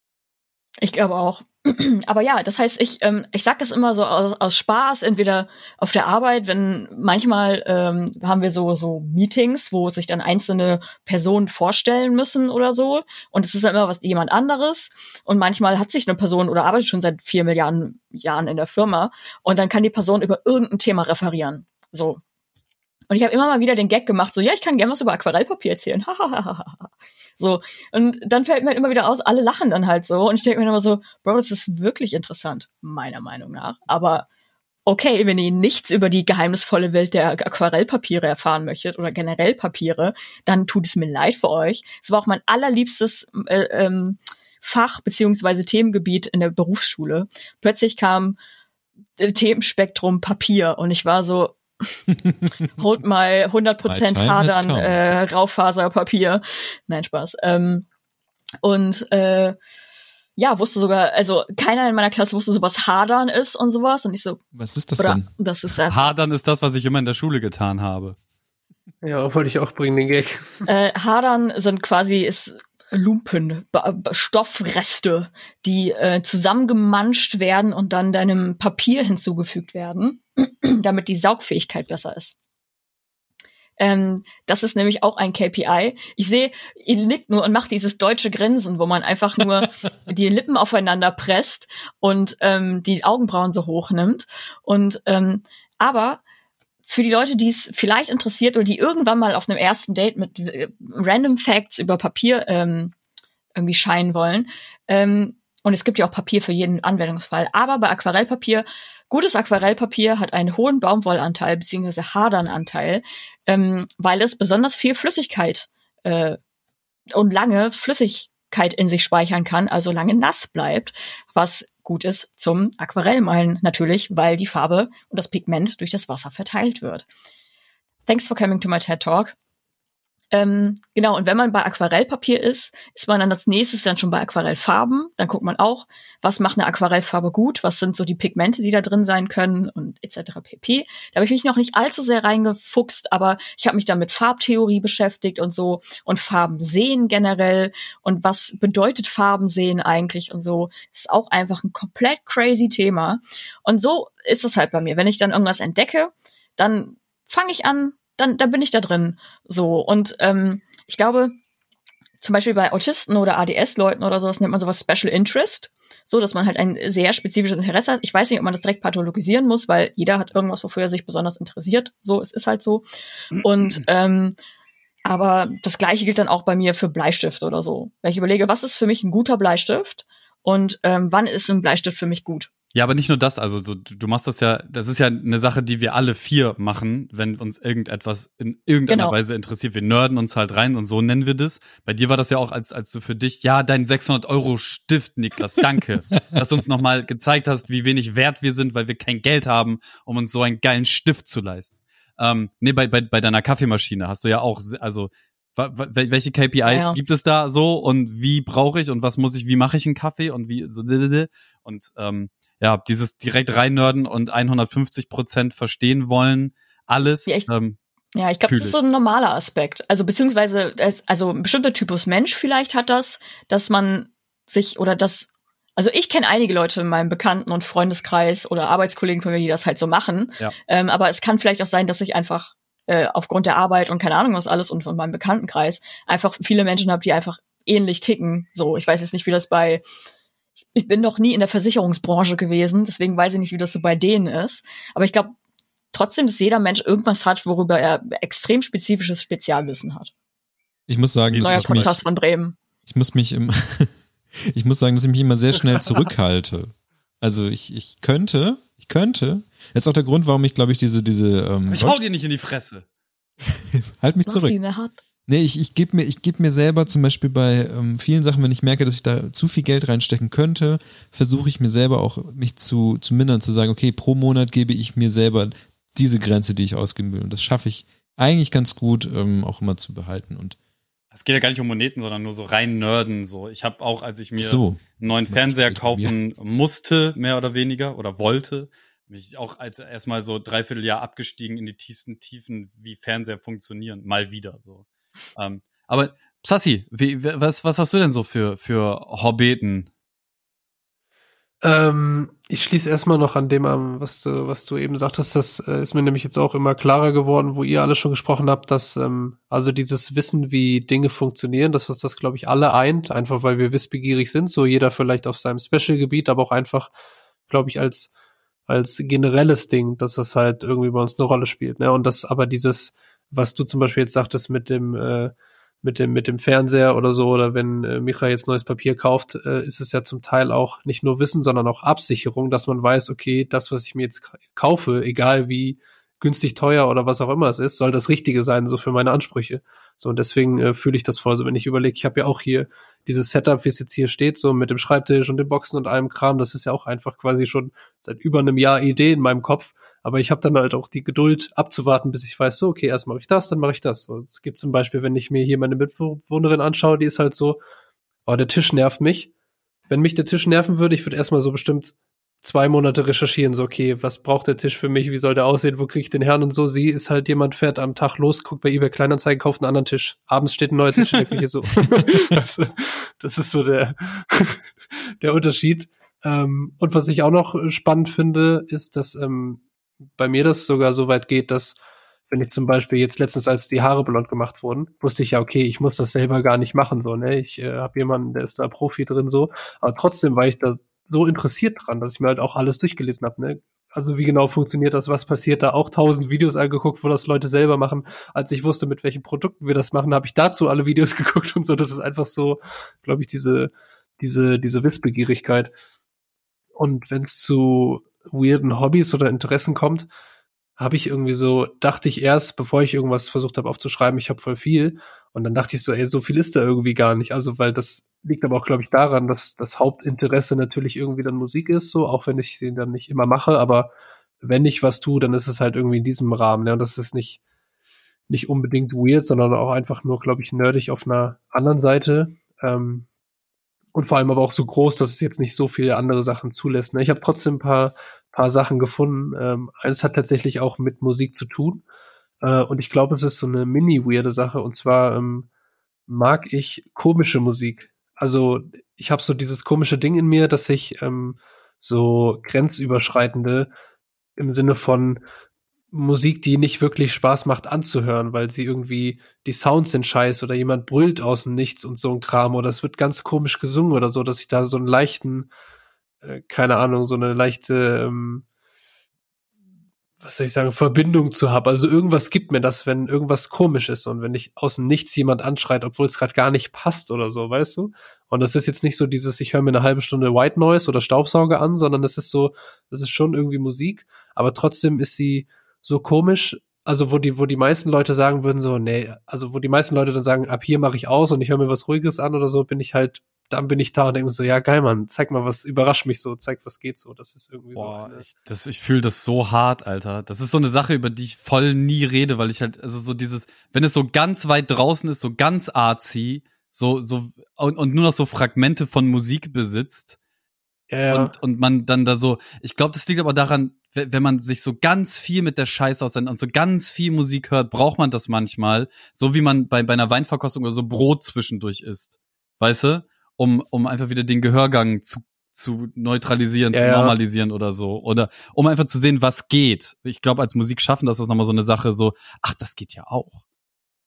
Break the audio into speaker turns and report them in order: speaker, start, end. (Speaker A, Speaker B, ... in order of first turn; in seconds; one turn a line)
Speaker A: 0.8-22.2
Speaker A: 23.1-34.2
Speaker A: 34.9-48.4
Speaker A: 49.2-51.6
Speaker A: 52.8-57.9
Speaker B: 53.9-55.0
Speaker A: 58.6-59.5
Speaker A: 60.4-64.4
Speaker B: 64.5-65.3
Speaker A: 65.0-66.1
Speaker C: 65.9-68.2
Speaker D: 69.0-70.7
Speaker A: 70.7-82.3
Speaker A: 83.8-96.2
Speaker A: 96.8-102.9
Speaker A: 103.5-116.4
Speaker A: 117.1-127.0
Speaker A: 128.1-129.3
Speaker A: 130.3-161.3
Speaker A: 162.2-172.8
Speaker A: 173.4-174.3
Speaker A: 175.1-182.5
Speaker C: 182.7-217.8
Speaker A: 188.9-189.2
Speaker A: 206.7-207.0
Speaker A: 218.1-239.8
Speaker C: 218.5-218.8
Speaker A: 240.7-245.3
Speaker A: 245.9-250.1
Speaker B: 250.9-251.9
Speaker C: 251.3-252.0
Speaker A: 251.4-252.6
Speaker B: 252.8-262.0
Speaker C: 261.7-262.8
Speaker B: 263.5-264.6
Speaker A: 264.2-265.0
Speaker B: 265.3-280.6
Speaker C: 281.1-299.9
Speaker B: 284.4-286.1
Speaker D: 301.6-316.9
Speaker D: 317.5-318.1
Speaker D: 318.7-357.6
Speaker D: 358.2-359.3
Speaker D: 359.9-379.6
Speaker D: 380.1-381.8
Speaker D: 382.3-405.7
Speaker D: 406.8-410.1
Speaker D: 410.8-427.4
Speaker D: 428.3-433.1
Speaker D: 433.9-441.8
Speaker D: 442.4-445.5
Speaker D: 446.1-453.7
Speaker D: 454.4-455.2
Speaker D: 455.9-465.5
Speaker D: 466.2-468.4
Speaker D: 470.2-498.2
Speaker C: 497.7-510.1
Speaker D: 510.9-511.3
Speaker C: 511.1-533.4
Speaker D: 526.7-527.1